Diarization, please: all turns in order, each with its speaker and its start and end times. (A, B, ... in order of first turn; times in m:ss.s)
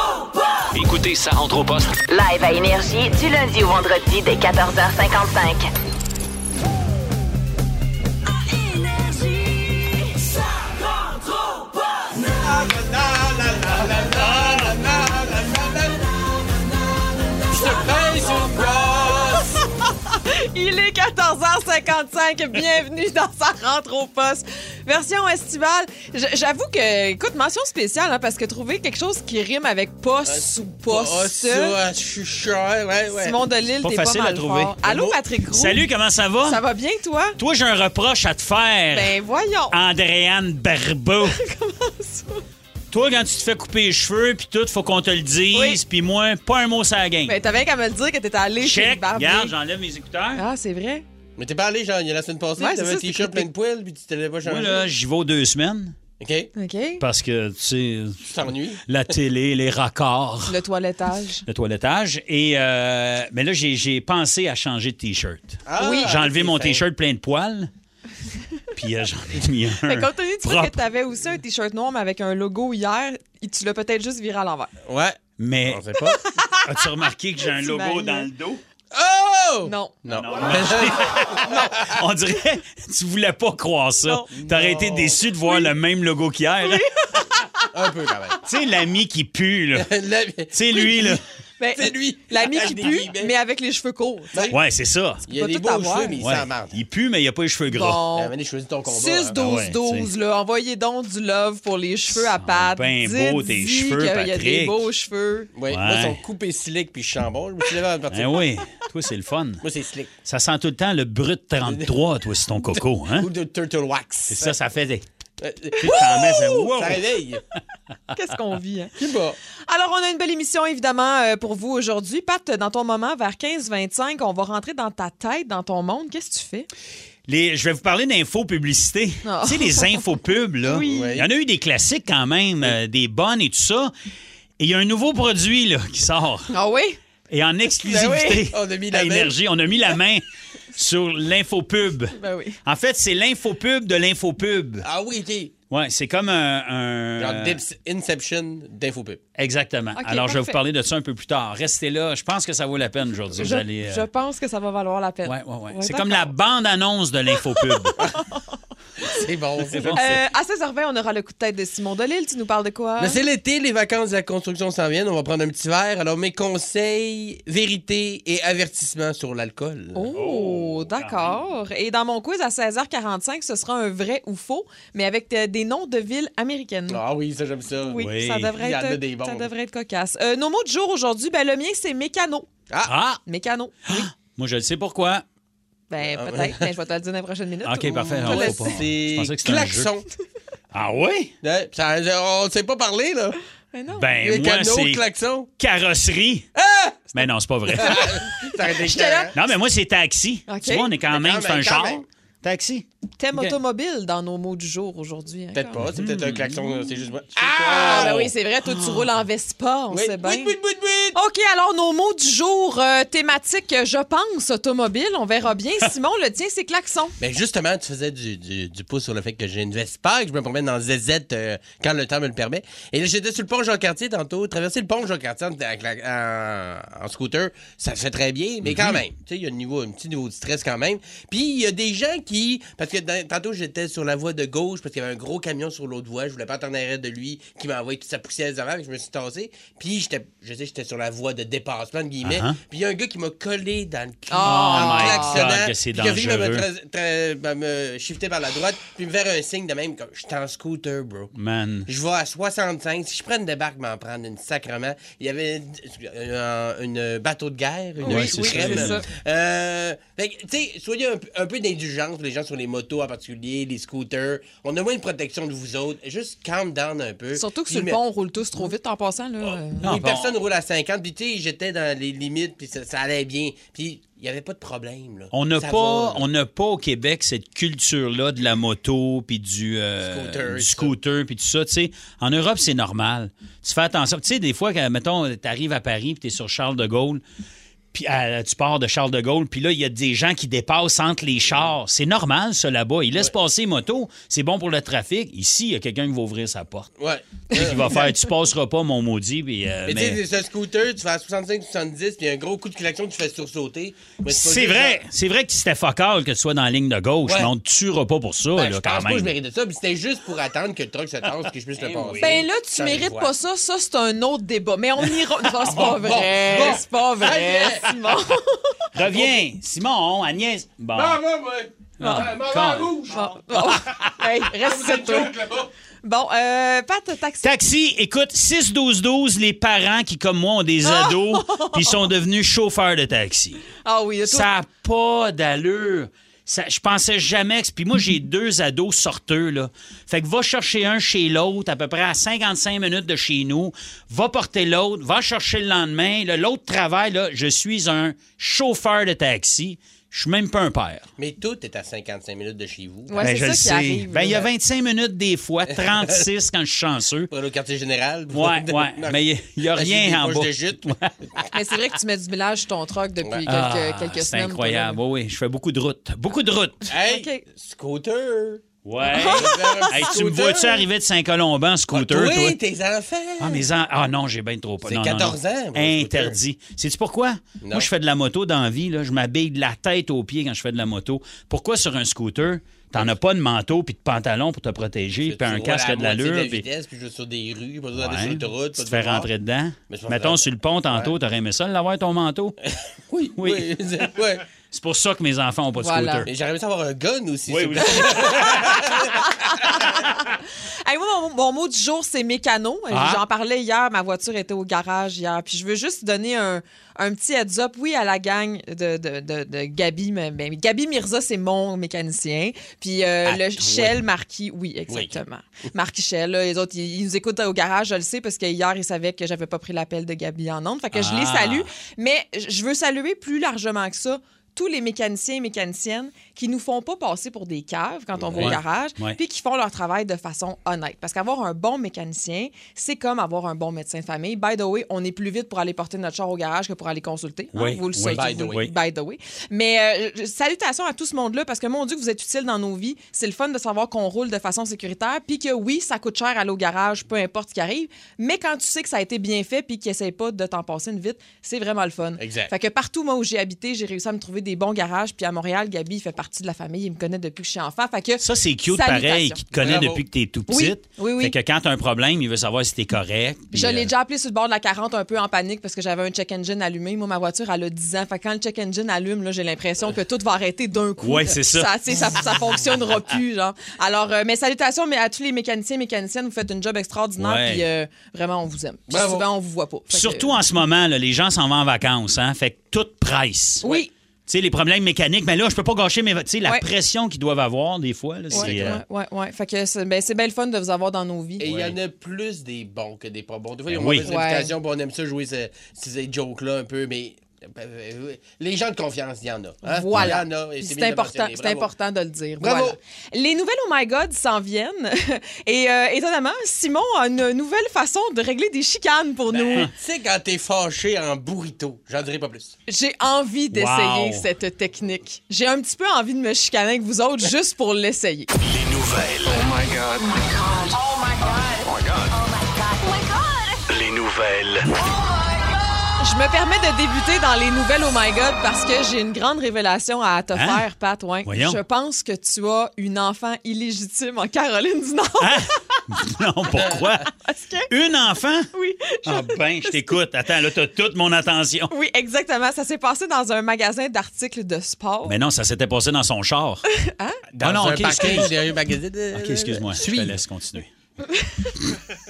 0:00.7-0:01.9 A
0:02.1-0:05.7 B
0:12.2-0:16.0 C
0:14.2-0:14.6 D
0:17.5-0:19.5 C
0:20.4-0:31.8 E
0:30.2-0:33.4 C
0:33.1-0:35.8 E
0:33.8-0:34.8 D
0:34.8-0:35.2 C
0:35.5-0:36.6 D
0:36.4-0:37.4 E
0:37.4-0:39.1 D
0:38.9-0:39.7 E
0:39.7-0:41.4 D
0:41.3-0:42.4 E
0:42.9-0:47.4 D
0:45.5-0:45.8 E
0:47.2-0:49.5 E
0:48.6-0:50.4 D
0:50.3-0:51.0 E
0:51.4-0:54.8 C
0:52.6-0:53.5 E
0:54.4-0:55.9 D
0:56.2-0:56.5 C
0:56.6-0:57.0 E
0:57.0-0:58.2 D
0:58.2-0:58.8 C
0:58.9-1:00.6 D
1:00.5-1:01.4 E
1:01.4-1:07.7 D
1:05.6-1:06.8 C
1:05.8-1:06.1 E
1:08.8-1:10.7 D
1:09.8-1:14.7 E
1:14.9-1:16.2 C
1:15.4-1:15.8 D
1:16.3-1:16.6 E
1:16.6-1:18.6 D
1:17.5-1:18.3 E
1:18.9-1:21.8 C
1:19.6-1:20.0 E
1:20.1-1:26.8 D
1:24.0-1:24.3 E
1:24.4-1:25.2 C
1:25.4-1:25.7 E
1:26.6-1:27.6 E
1:27.7-1:28.4 C
1:28.4-1:29.9 D
1:29.8-1:31.1 C
1:30.5-1:31.2 D
1:31.6-1:34.5 E
1:31.7-1:33.3 C
1:34.5-1:35.2 D
1:35.3-1:36.8 C
1:35.3-1:36.2 E
1:36.2-1:38.0 D
1:37.7-1:38.3 E
1:38.1-1:39.4 C
1:38.9-1:45.5 E
1:39.4-1:40.1 D
1:42.1-1:44.9 D
1:45.5-1:48.4 C
1:45.7-1:46.2 D
1:48.1-1:49.6 D
1:49.6-1:50.1 C
1:50.2-1:53.3 D
1:53.2-1:54.5 C
1:54.3-1:55.0 D
1:55.4-1:56.0 C
1:55.8-1:57.0 D
1:55.8-1:56.6 E
1:56.7-1:57.4 C
1:58.1-1:58.9 E
1:59.0-1:59.4 C
1:59.7-2:06.7 E
2:07.3-2:13.9 D
2:09.2-2:10.0 E
2:10.6-2:11.1 E
2:10.8-2:11.2 C
2:14.6-2:16.5 D
2:16.5-2:17.0 E
2:17.3-2:20.2 D
2:17.8-2:18.4 E
2:18.1-2:19.3 C
2:20.7-2:24.8 D
2:22.2-2:22.6 E
2:24.8-2:25.5 C
2:25.7-2:27.6 D
2:27.2-2:29.2 C
2:29.4-2:34.0 D
2:30.0-2:30.6 E
2:33.4-2:36.3 E
2:35.2-2:38.0 D
2:39.1-2:40.1 C
2:39.7-2:40.2 D
2:39.9-2:43.2 E
2:43.0-2:50.0 C
2:49.9-2:57.0 E
2:50.1-2:51.4 D
2:56.9-2:58.0 C
2:57.9-3:02.5 E
2:58.0-2:58.5 D
2:58.5-2:59.5 C
3:02.8-3:03.2 D
3:03.2-3:04.1 E
3:03.9-3:05.2 D
3:05.9-3:08.7 E
3:06.0-3:06.6 C
3:07.6-3:09.9 D
3:08.2-3:10.1 C
3:10.7-3:11.3 D
3:11.4-3:13.4 C
3:13.7-3:14.0 E
3:13.9-3:15.0 D
3:14.2-3:15.5 C
3:15.6-3:16.5 D
3:16.6-3:17.1 C
3:17.1-3:18.1 D
3:17.7-3:19.3 C
3:18.8-3:19.3 E
3:19.3-3:23.5 D
3:20.5-3:20.9 E
3:21.1-3:22.0 C
3:23.2-3:25.8 E
3:25.5-3:28.3 C
3:25.9-3:26.6 D
3:27.4-3:29.1 D
3:27.6-3:30.5 E
3:29.9-3:31.2 C
3:31.1-3:37.1 E
3:37.2-4:11.3 C
3:48.6-3:49.0 D
4:02.2-4:02.6 D
4:04.3-4:05.5 E
4:04.4-4:06.7 D
4:11.3-4:11.9 D
4:11.9-4:28.0 C
4:18.0-4:19.0 D
4:18.0-4:19.0 E
4:27.3-4:29.9 E
4:29.8-4:36.2 C
4:29.8-4:30.4 D
4:35.3-4:47.2 D
4:40.0-4:40.9 C
4:47.9-4:56.9 D
4:51.4-4:51.7 C
4:57.0-4:58.1 C
4:57.5-4:58.1 E
4:57.5-5:00.2 D
4:59.9-5:05.0 C
5:04.3-5:09.3 D
5:08.6-5:13.3 C
5:11.8-5:12.4 D
5:12.2-5:18.8 E
5:15.6-5:16.7 D
5:15.7-5:17.9 C
5:18.9-5:21.2 D
5:20.9-5:23.2 C
5:22.0-5:23.0 D
5:22.0-5:22.4 E
5:23.1-5:25.4 E
5:24.6-5:25.7 C
5:26.0-5:27.5 E
5:27.4-5:33.6 D
5:30.8-5:32.0 E
5:33.8-5:34.5 E
5:34.2-5:51.0 D
5:51.2-5:53.2 C
5:53.1-5:54.5 E
5:53.2-5:57.3 D
5:55.7-5:56.2 C
5:57.3-5:59.2 C
5:58.3-6:01.1 D
5:59.7-6:00.8 C
6:01.5-6:05.0 E
6:03.5-6:06.9 D
6:06.9-6:08.6 C
6:07.0-6:07.4 E
6:08.8-6:12.6 D
6:09.0-6:10.0 E
6:09.2-6:10.8 C
6:11.9-6:13.6 C
6:13.4-6:26.6 D
6:14.9-6:16.3 C
6:17.6-6:17.9 C
6:25.3-6:29.3 C
6:27.9-6:32.6 D
6:29.9-6:31.1 C
6:33.1-6:34.4 C
6:33.4-6:33.6 D
6:34.7-6:36.3 D
6:35.8-6:36.3 E
6:36.3-6:39.2 C
6:37.5-6:38.8 D
6:39.1-6:40.3 E
6:40.8-7:39.4 E
6:42.9-6:43.2 D
6:53.2-6:54.0 C
6:54.9-6:55.2 C
7:00.9-7:01.6 D
7:08.2-7:08.6 C
7:08.4-7:09.2 D
7:17.5-7:18.7 D
7:18.1-7:18.6 C
7:32.2-7:32.5 C
7:38.2-7:43.9 D
7:39.6-7:40.0 C
7:40.5-7:41.3 E
7:43.5-8:00.4 E
7:51.0-7:52.1 D
7:57.2-7:57.6 D
7:58.9-7:59.2 C
7:59.9-8:03.6 D
8:03.6-8:03.9 E
8:04.3-8:08.8 D
8:08.3-8:11.5 E
8:08.3-8:08.8 C
8:11.4-8:21.7 C
8:11.5-8:11.8 D
8:13.7-8:14.1 D
8:14.0-8:14.5 E
8:19.6-8:29.7 E
8:22.4-8:22.8 C
8:29.3-8:32.5 C
8:32.7-8:38.3 E
8:33.5-8:34.3 D
8:38.4-8:39.5 A
8:40.6-8:41.6 B
8:42.4-8:42.7 B
8:43.7-8:44.7 A
8:46.0-8:55.3 E
8:50.3-8:50.6 D
8:51.2-8:51.6 D
8:55.2-8:57.1 D
8:56.6-8:56.8 C
8:57.2-8:57.7 E
8:57.7-8:58.5 D
8:58.5-8:59.8 E
8:59.0-9:01.7 D
9:01.7-9:05.1 E
9:05.0-9:06.6 D
9:06.8-9:07.2 E
9:07.3-9:10.2 C
9:07.4-9:08.3 D
9:09.1-9:10.7 D
9:11.0-9:11.6 E